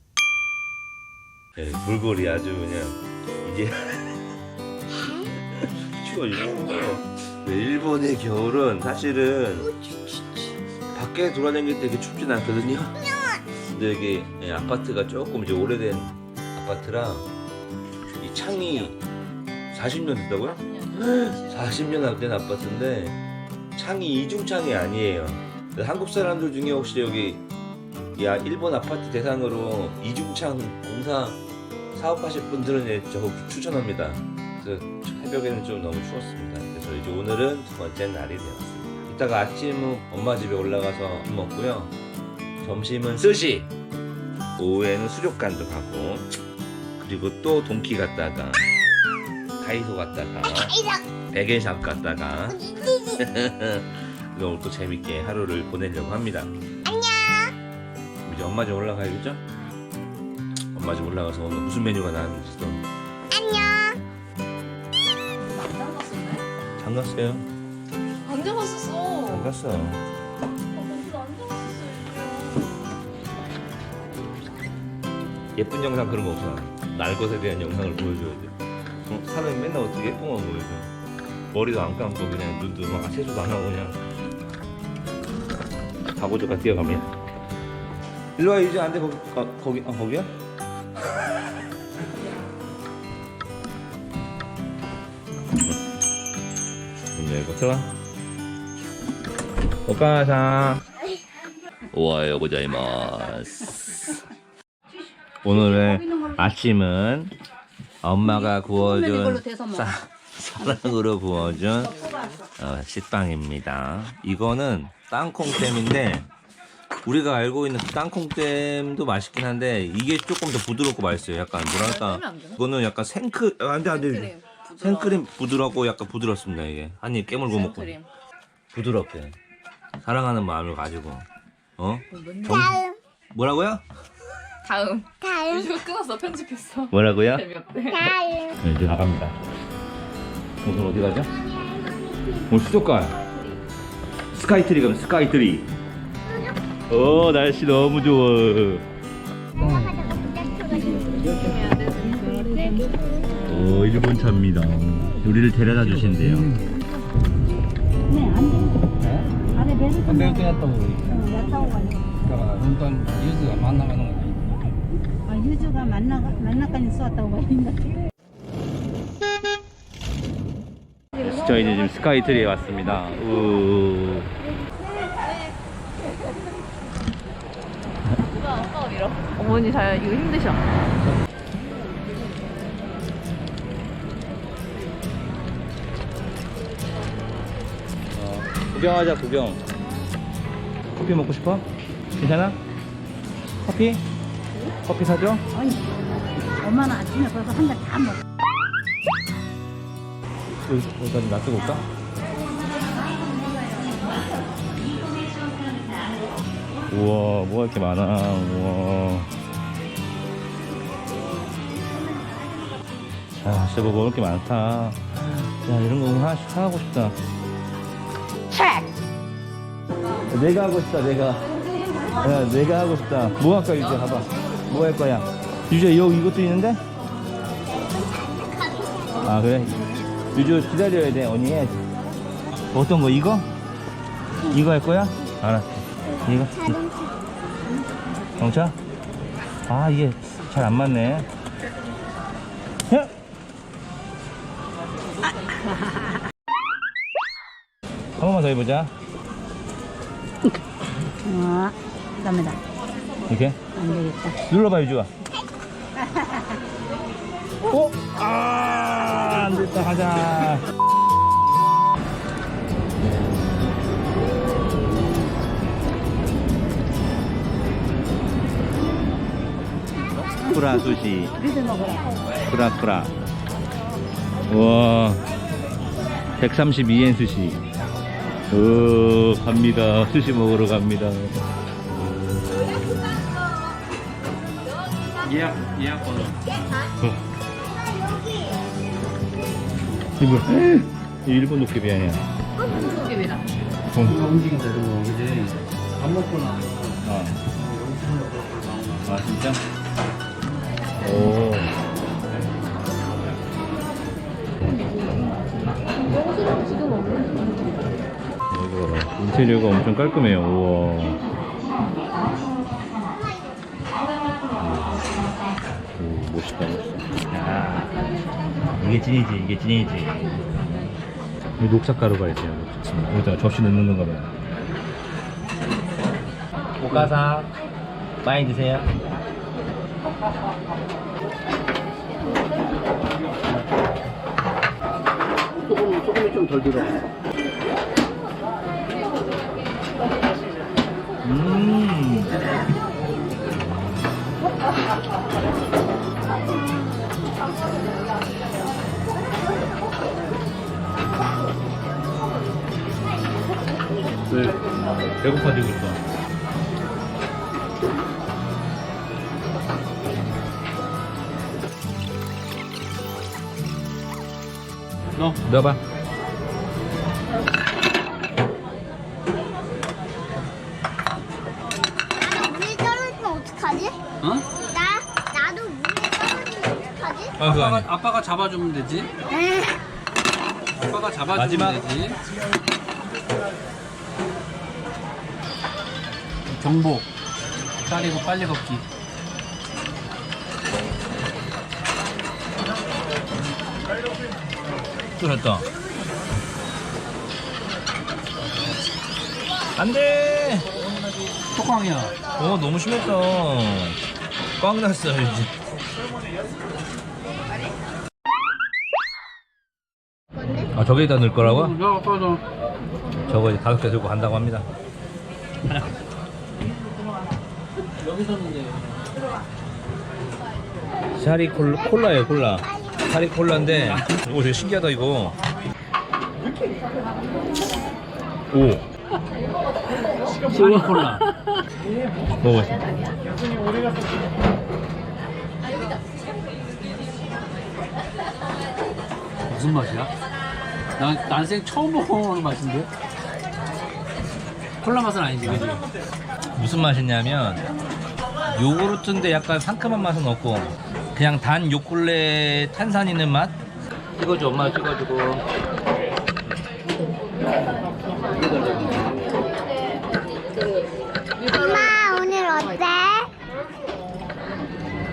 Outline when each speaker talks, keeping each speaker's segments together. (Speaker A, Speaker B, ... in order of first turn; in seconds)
Speaker A: 1.6-4.2, 5.9-9.8, 10.9-13.1, 13.7-17.3, 18.2-19.0, 19.7-23.2, 23.7-27.4, 28.1-31.4, 31.9-41.9, 42.6-43.7, 44.6-46.4, 47.0-48.7, 49.6-56.5, 58.2-59.4, 60.7-62.9, 66.8-67.5, 69.3-70.0, 75.6-78.5, 79.1-80.9, 81.5-84.0, 86.2-87.1, 88.4-90.3, 97.1-97.9, 99.9-100.8, 101.9-104.0, 105.4-107.3, 108.0-112.0, 112.6-116.3, 117.0-128.0, 128.7-129.3, 130.0-131.3, 131.8-133.8, 136.9-137.5, 138.6-139.4, 140.6-141.3, 142.5-143.2, 144.3-145.7, 146.9-148.8, 153.5-156.5, 171.2-174.3, 188.1-189.6, 191.0-191.7, 192.2-192.6, 193.7-194.0, 194.8-195.4, 200.7-201.8, 206.9-209.3, 213.4-217.2, 220.3-221.4, 222.2-226.8, 229.2-231.8, 232.7-233.5, 234.5-236.8, 238.4-238.8, 239.7-241.3, 248.2-248.9, 253.3-253.6, 254.4-255.1, 257.7-260.6, 270.6-271.4, 272.4-273.1, 274.5-275.2, 276.4-277.6, 278.5-281.4, 290.2-290.7, 291.3-292.2, 301.1-301.6, 308.5-311.2, 314.6-315.1, 315.9-317.9, 318.8-320.2, 321.8-324.3, 327.2-327.5, 328.2-328.9, 341.3-342.1, 355.2-356.0, 365.5-365.8, 377.4-377.8, 381.3-381.8, 395.2-395.6, 399.8-400.7, 402.4-404.0, 404.6-405.5, 410.7-411.6, 413.3-414.7, 421.2-425.4, 428.5-428.8, 432.4-432.8, 446.6-447.6, 448.5-453.6, 454.2-455.4
Speaker B: 13.0-13.4, 50.7-51.0, 52.5-53.2, 56.9-57.5, 63.3-64.0, 138.1-138.6, 141.4-142.4, 150.0-150.7, 227.7-229.2, 236.6-237.1, 287.8-288.5, 372.2-374.1, 374.6-377.4, 461.6-463.4
Speaker C: 20.6-21.6, 65.4-66.4, 68.2-69.5, 70.8-72.8, 121.7-122.6, 123.9-125.2, 127.3-128.1, 132.1-132.8, 134.6-138.2, 150.8-153.0, 178.2-180.6, 292.7-293.4, 304.8-305.2, 306.1-307.6, 461.4-463.0
Speaker D: 108.4-109.9, 158.1-158.9, 159.6-160.4, 161.2-162.1, 165.3-167.9, 195.5-195.8, 196.6-198.2, 251.2-252.6, 253.7-254.4, 256.0-256.5, 270.4-270.8, 271.4-272.3
Speaker E: 149.6-150.1, 155.6-156.6, 159.0-159.4, 160.0-161.3, 162.2-164.6, 285.2-286.6, 294.0-299.5, 326.8-327.2, 335.7-337.1, 354.3-354.6, 374.2-374.5, 377.4-379.1, 380.8-382.2, 386.5-387.1, 387.8-388.8, 401.5-402.2, 411.4-412.4, 418.0-419.0, 423.7-424.2, 430.4-431.3, 439.5-440.1, 441.0-442.9, 444.8-445.9, 458.4-459.1